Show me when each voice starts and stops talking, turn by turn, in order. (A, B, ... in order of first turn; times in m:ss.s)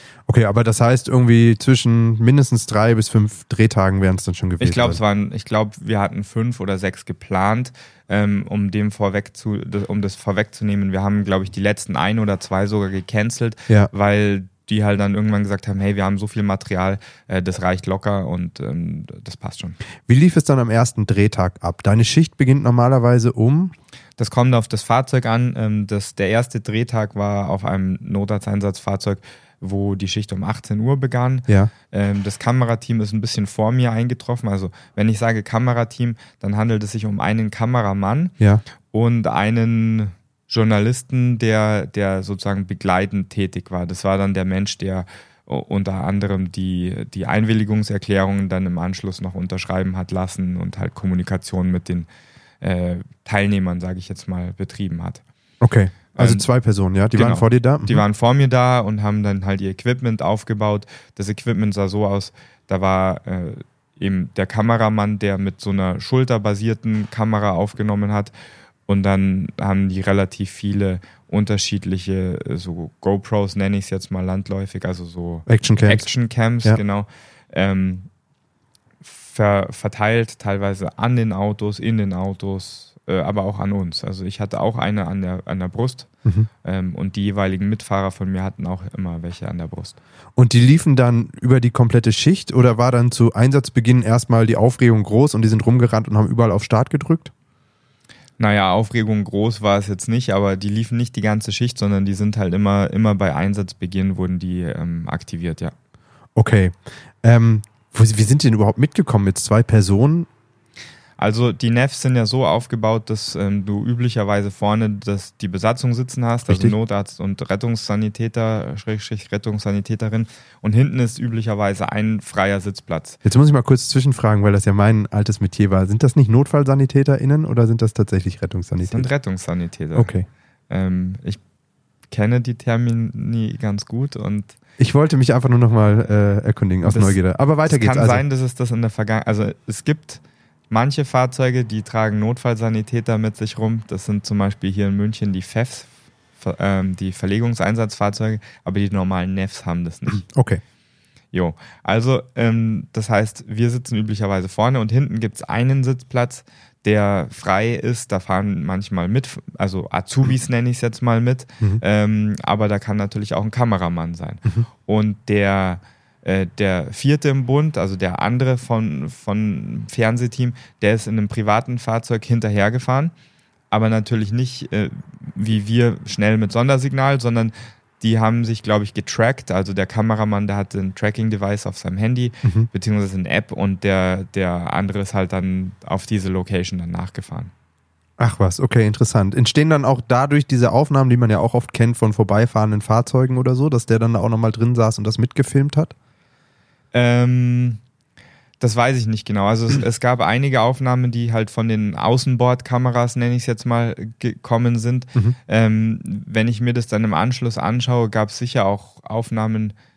0:00.3-0:05.0 A
0:04.6-0:19.8 B
0:20.1-0:23.7 A
0:24.2-0:38.3 B
0:38.9-0:52.1 B
0:52.6-0:55.2 B
0:55.6-0:58.0 A
0:56.1-0:56.4 B
0:57.1-1:08.3 B
1:08.9-1:18.1 B
1:15.5-1:16.1 A
1:19.0-1:26.1 B
1:26.6-1:30.0 B
1:30.4-1:37.3 A
1:38.4-1:45.7 B
1:46.4-1:50.3 A
1:51.2-2:03.2 B
1:56.5-1:56.8 A
2:03.2-2:09.1 A
2:08.9-2:10.1 B
2:09.9-2:10.3 A
2:10.7-2:11.4 B
2:12.1-2:14.6 B
2:14.8-2:18.2 A
2:16.8-2:30.2 B
2:30.2-2:30.6 A
2:31.3-2:53.1 B
2:53.7-3:07.5 B
3:08.2-3:15.9 A
3:16.9-3:17.8 B
3:18.6-3:29.7 B